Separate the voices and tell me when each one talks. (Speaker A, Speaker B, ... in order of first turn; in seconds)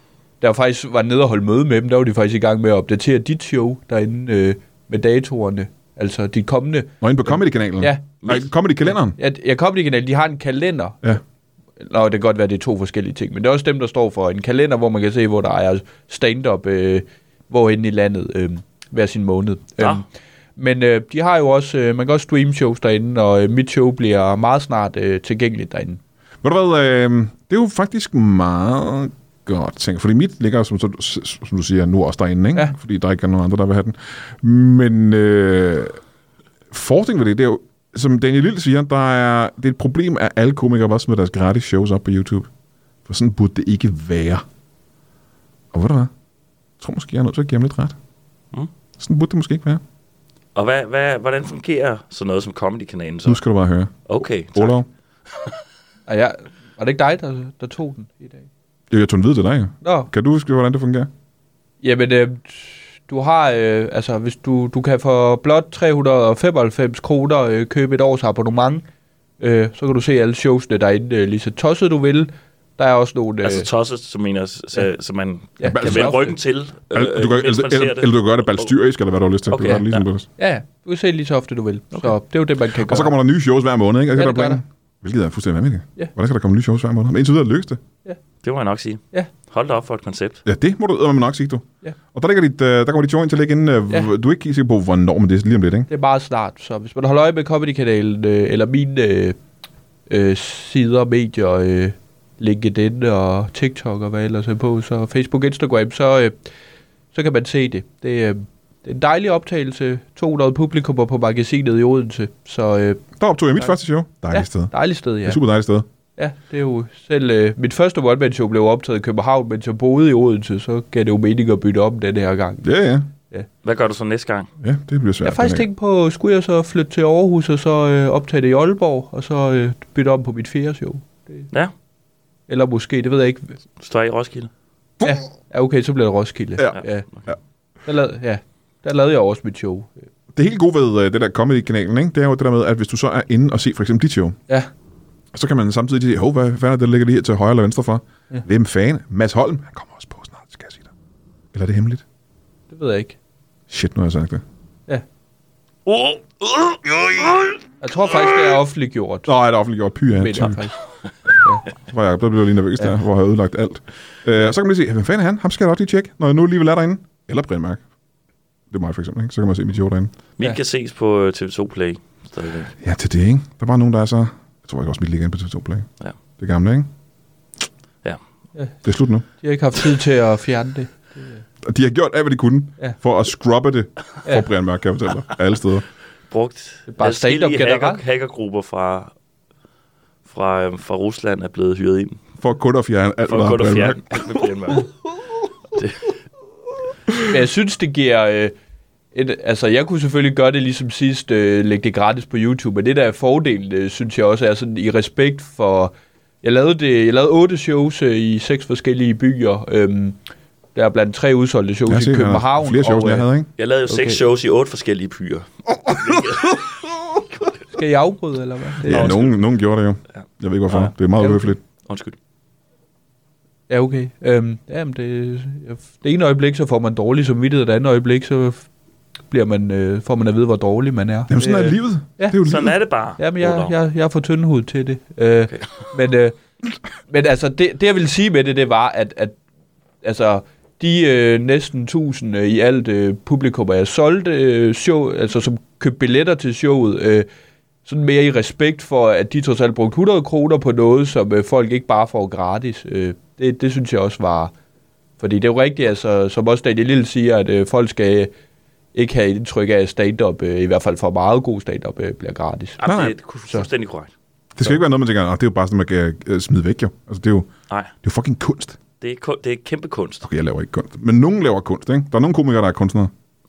Speaker A: 0.4-8.0, 8.9-11.1, 11.8-20.0, 20.6-26.0, 56.1-58.5, 59.8-60.1, 61.8-68.8, 69.4-73.7, 75.6-76.3, 80.4-83.2, 84.2-84.6, 95.9-99.4, 100.1-106.4, 107.1-113.0, 114.3-115.4, 116.2-122.7, 125.2-131.5, 132.5-133.6, 135.0-137.1, 137.8-140.0, 152.7-153.2, 157.8-159.3, 160.1-160.8, 179.4-181.4, 186.9-188.0, 197.2-198.5, 199.1-210.2, 210.7-213.3, 213.9-214.2, 217.7-219.2, 221.2-221.5, 223.7-228.7, 229.3-232.4, 233.2-236.4, 237.1-239.4, 240.0-247.3, 247.8-254.5, 255.2-258.3, 258.9-262.8
Speaker B: 7.0-9.2, 26.4-36.0, 36.7-42.5, 43.0-44.4, 45.7-46.1, 46.8-48.0, 49.0-49.8, 53.2-54.9, 58.9-61.1, 75.6-76.3, 76.9-80.3, 82.8-87.8, 90.4-95.9, 113.2-114.7, 115.2-115.8, 122.6-123.1, 124.6-125.7, 136.6-137.4, 140.3-144.4, 145.3-150.9, 151.5-152.0, 153.7-154.4, 159.2-160.6, 161.8-167.8, 168.7-170.1, 172.8-175.9, 176.4-176.9, 178.8-179.2, 181.6-185.8, 192.4-194.2, 211.9-213.5, 218.8-221.6, 231.3-232.8, 262.8-263.1, 264.6-267.5, 268.0-268.8, 270.2-273.1
Speaker C: 8.2-8.5, 50.5-53.4, 54.0-54.8, 73.4-78.7, 79.5-80.0, 88.4-90.4, 123.6-124.5, 133.8-134.5, 155.8-157.6, 170.4-172.7, 186.3-189.1, 190.2-192.2, 193.3-194.9, 195.7-196.1, 213.6-217.6, 218.8-219.3, 220.7-220.9, 221.8-222.2, 232.4-233.7, 235.5-235.8, 262.8-264.1, 269.0-270.2